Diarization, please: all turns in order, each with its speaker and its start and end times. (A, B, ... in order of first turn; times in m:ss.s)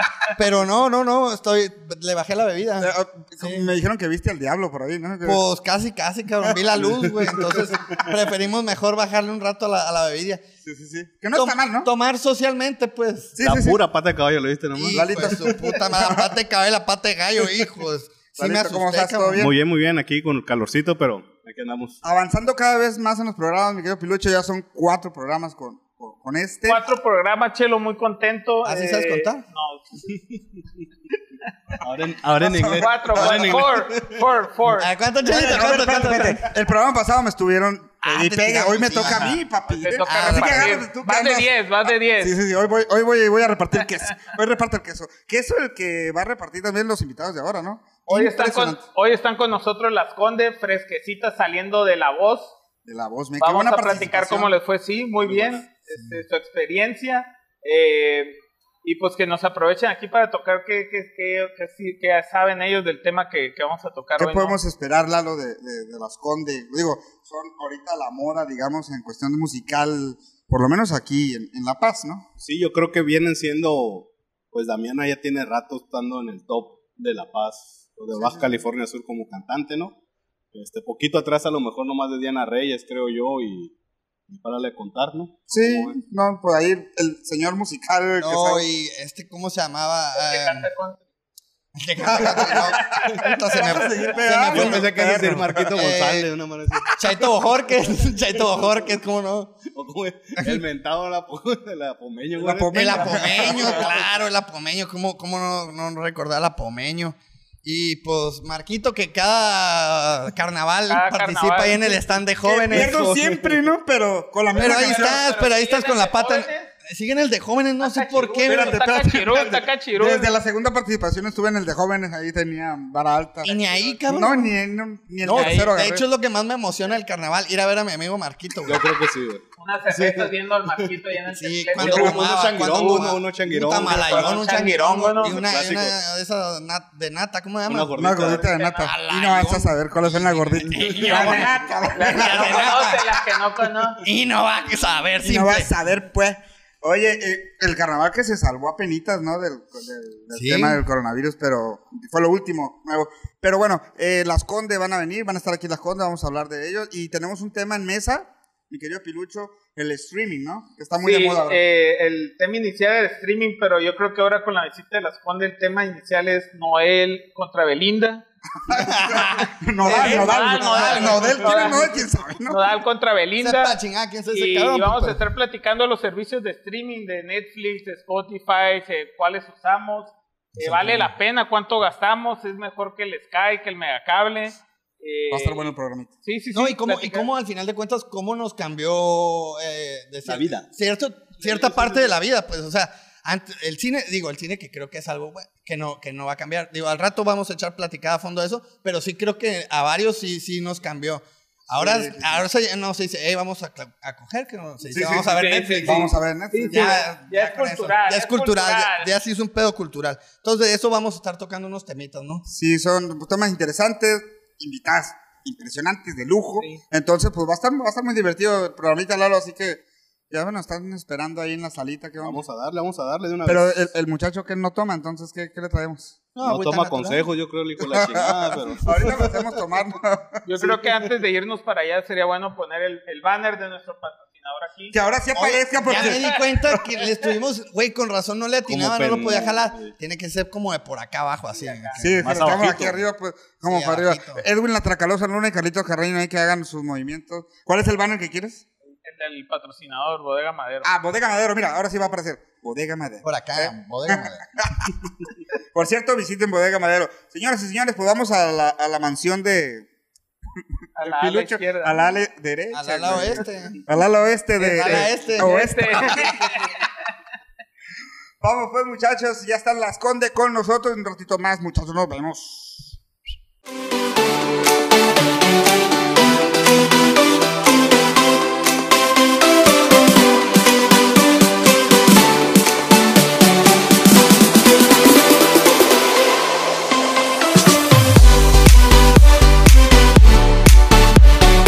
0:00.3-0:02.9 A
0:02.8-0:05.4 B
0:05.2-0:10.4 A
0:06.4-0:07.7 B
0:10.6-0:11.9 B
0:11.3-0:13.4 A
0:13.4-0:13.8 B
0:13.4-0:15.0 C
0:14.7-0:19.4 A
0:14.9-0:16.3 B
0:18.4-0:19.5 B
0:19.4-0:22.0 C
0:22.0-0:26.8 B
0:26.7-0:30.0 D
0:28.6-0:29.4 A
0:31.8-0:34.1 C
0:32.4-0:33.7 B
0:32.6-0:34.9 D
0:34.7-0:36.4 A
0:35.2-0:41.5 B
0:38.0-0:39.4 A
0:39.7-0:42.4 D
0:40.0-0:40.8 A
0:42.2-0:48.8 B
0:48.1-0:52.5 D
0:52.9-0:54.5 B
0:53.4-1:04.6 D
1:04.2-1:12.3 B
1:12.4-1:19.9 C
1:18.2-1:18.4 B
1:20.5-1:23.7 C
1:24.3-1:26.0 C
1:25.5-1:28.6 B
1:28.2-1:30.7 A
1:30.2-1:31.0 D
1:31.8-1:34.9 A
1:32.0-1:32.9 B
1:33.5-1:35.9 B
1:34.4-1:37.2 C
1:35.7-1:36.3 A
1:36.9-1:39.6 A
1:39.6-1:43.9 C
1:42.4-1:43.9 B
1:42.7-1:52.9 A
1:50.9-1:52.0 D
1:52.4-1:55.2 B
1:52.6-1:53.6 C
1:54.5-1:56.7 D
1:54.6-1:58.8 A
1:57.8-2:00.3 D
1:58.4-2:06.0 B
2:03.4-2:04.5 A
2:05.2-2:08.9 A
2:05.3-2:05.7 D
2:08.6-2:10.9 C
2:09.6-2:13.1 D
2:11.4-2:23.1 A
2:11.8-2:14.4 C
2:13.9-2:15.4 D
2:15.2-2:16.0 C
2:17.7-2:18.4 C
2:17.9-2:22.8 B
2:18.3-2:18.8 D
2:21.0-2:24.0 D
2:24.0-2:25.7 A
2:25.2-2:41.6 B
2:30.3-2:30.8 A
2:41.0-2:48.2 D
2:48.6-2:52.6 B
2:48.7-2:51.8 A
2:49.8-2:53.8 D
2:53.4-2:55.2 A
2:54.3-3:05.7 D
3:00.6-3:01.1 C
3:05.3-3:06.1 B
3:06.2-3:07.3 D
3:06.5-3:26.1 A
3:10.2-3:10.7 C
3:11.6-3:12.1 C
3:21.7-3:22.4 B
3:24.9-3:27.0 B
3:24.9-3:29.1 D
3:26.7-3:32.4 A
3:32.4-3:42.4 B
3:42.2-3:43.7 C
3:43.4-3:46.2 B
3:46.4-3:47.3 A
3:46.4-3:49.2 C
3:47.8-3:51.0 B
3:50.4-3:54.9 D
3:54.9-3:56.3 B
3:55.4-4:02.6 A
3:55.9-3:56.4 D
3:58.7-3:59.9 C
4:01.5-4:02.1 D
4:02.0-4:08.6 B
4:02.2-4:02.9 C
4:03.7-4:04.4 A
4:09.0-4:10.9 D
4:10.8-4:14.9 B
4:13.2-4:14.4 A
4:15.7-4:19.9 B
4:21.0-4:22.0 D
4:21.0-4:26.5 B
4:22.7-4:23.8 A
4:24.6-4:26.3 A
4:24.7-4:26.8 D
4:28.4-4:33.0 B